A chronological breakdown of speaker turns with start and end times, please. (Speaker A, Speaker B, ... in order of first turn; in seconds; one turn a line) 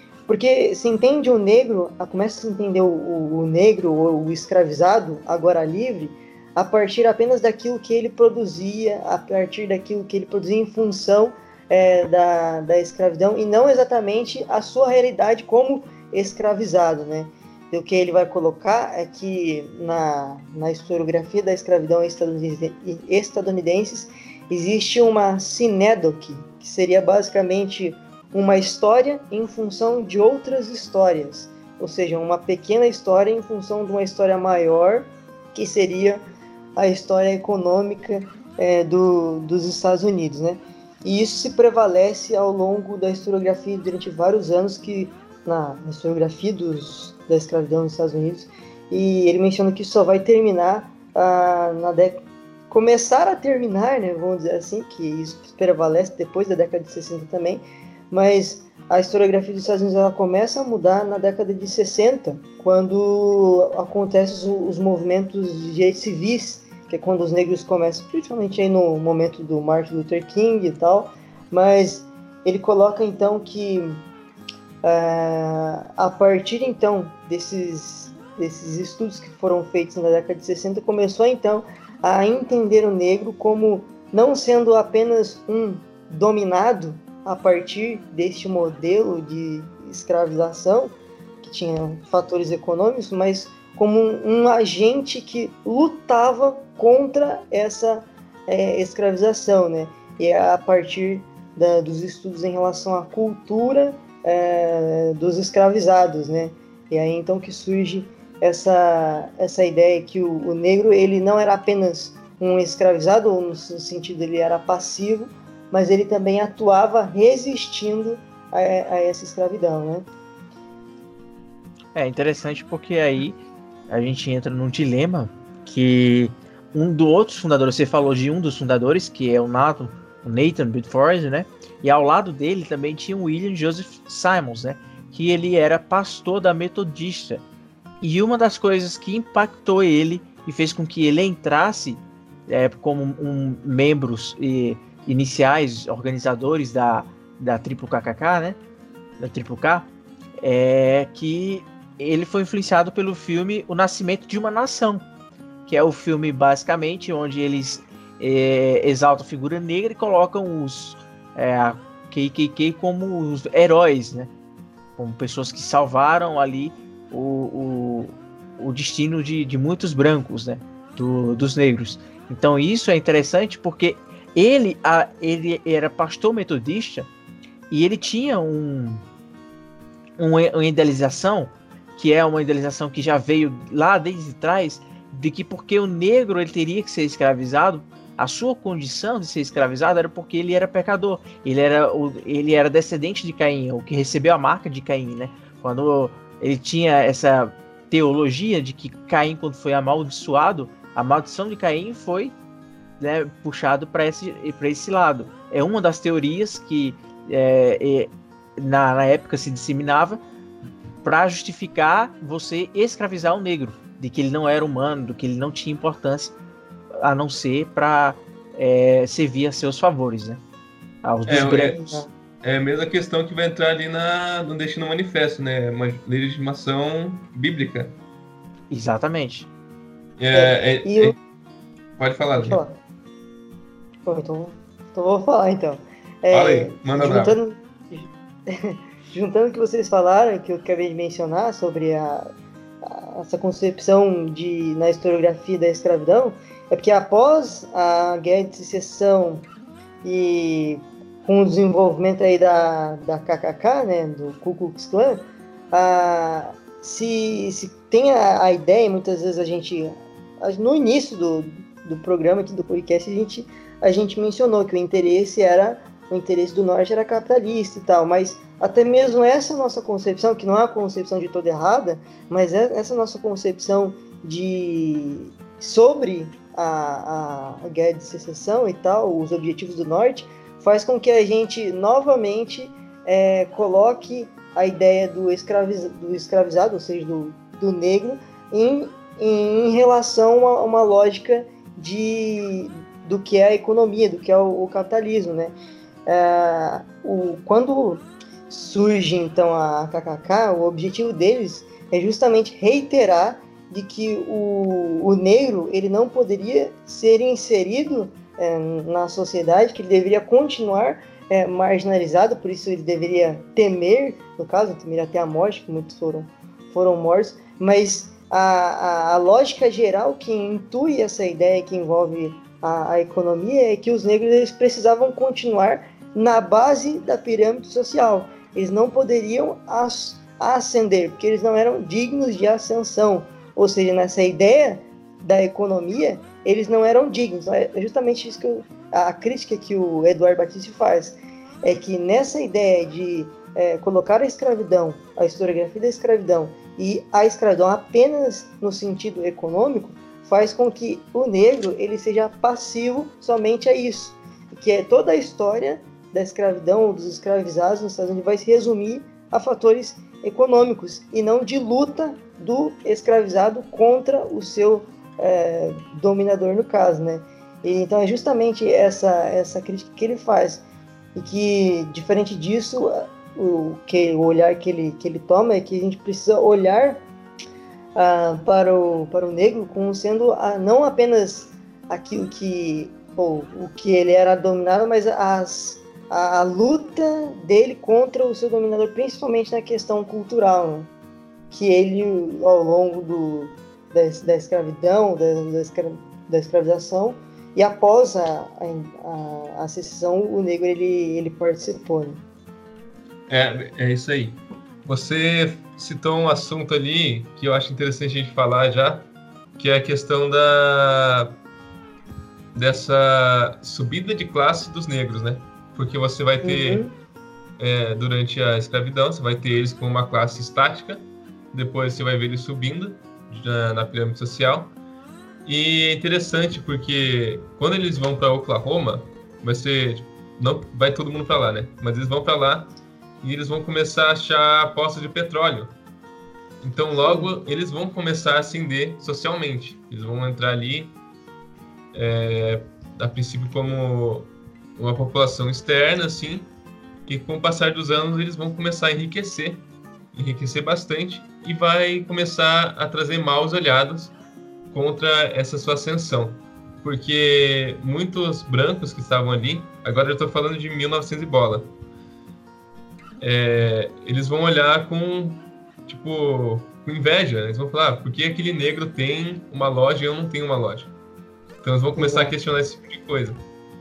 Speaker A: 0.3-36.2
Speaker A: 36.8-74.0
Speaker A: 74.8-120.1
Speaker B: 121.9-137.4
Speaker B: 138.0-148.6
Speaker B: 149.2-149.9
Speaker B: 150.4-155.1
Speaker B: 155.7-164.3
Speaker B: 165.0-177.1
Speaker B: 177.7-179.0
Speaker B: 180.2-202.3
Speaker B: 203.0-210.2
Speaker B: 211.0-216.3
Speaker B: 217.0-220.4
Speaker B: 221.0-222.0
Speaker C: 221.3-221.8
Speaker A: 221.4-222.1
Speaker C: 222.4-228.0
Speaker B: 228.7-229.5
Speaker C: 230.2-231.2
Speaker A: 230.3-231.2
Speaker C: 232.0-232.6
Speaker A: 232.4-232.8
Speaker A: 234.1-242.3
Speaker C: 236.3-237.4
Speaker A: 242.8-249.4
Speaker A: 250.0-295.6
Speaker A: 296.1-370.6
Speaker A: 371.1-377.1
Speaker A: 377.9-390.9
Speaker A: 391.5-402.2
Speaker C: 403.3-411.4
Speaker C: 412.5-416.8
Speaker A: 416.4-416.9
Speaker C: 417.6-424.7
Speaker C: 425.4-435.7
Speaker C: 436.6-440.9
Speaker A: 437.0-437.3
Speaker C: 441.9-446.5
Speaker C: 447.1-454.1
Speaker C: 454.7-461.7
Speaker C: 463.2-470.9
Speaker C: 471.6-473.4
Speaker A: 471.9-472.3